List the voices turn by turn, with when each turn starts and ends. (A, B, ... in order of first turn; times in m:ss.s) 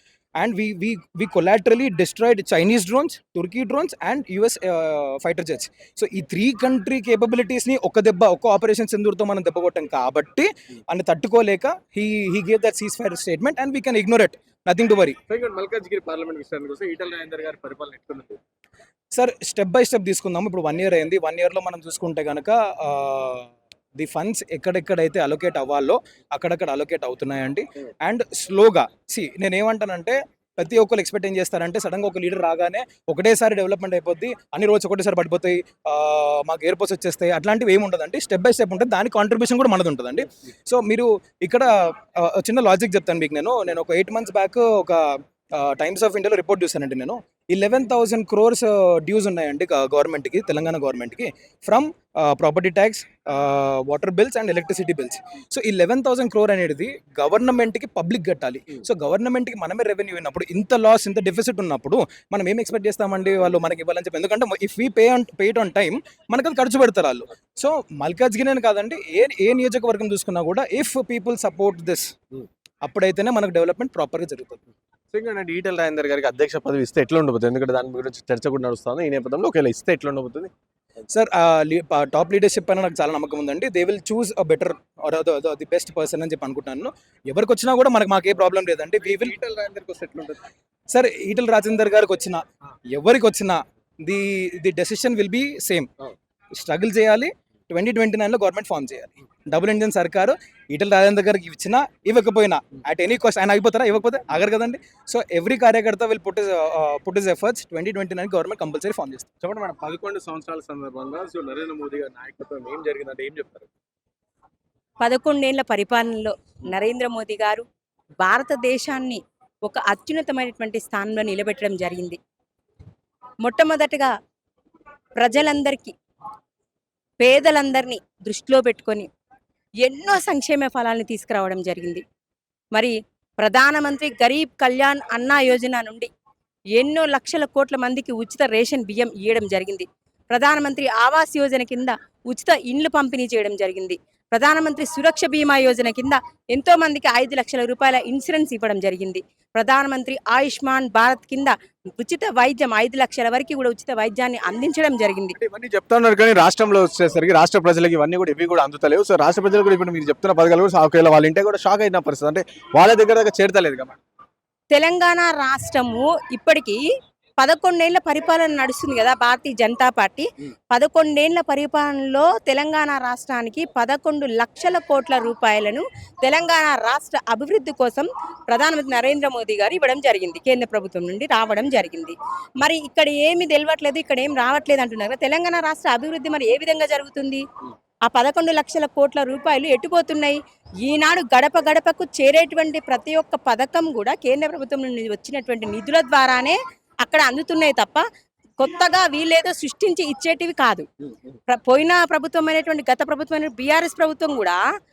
0:00.4-0:15.2 A
0:15.3-0:18.4 B
0:19.1-1:12.1 A
1:12.8-1:14.6 A
1:15.1-1:20.5 B
1:21.1-1:29.3 A
1:29.0-1:30.4 B
1:30.9-1:35.9 A
1:36.5-1:49.3 A
1:49.4-1:53.7 B
1:55.0-1:57.6 C
1:58.2-2:02.2 C
2:03.4-2:04.1 C
2:05.2-2:05.9 C
2:07.2-2:09.1 C
2:09.8-2:12.0 C
2:12.7-2:16.1 C
2:16.8-2:35.4 C
2:35.4-2:44.0 B
2:44.7-2:46.8 C
2:47.4-3:07.4 C
3:08.1-3:18.0 C
3:18.6-3:20.9 C
3:21.5-3:24.6 C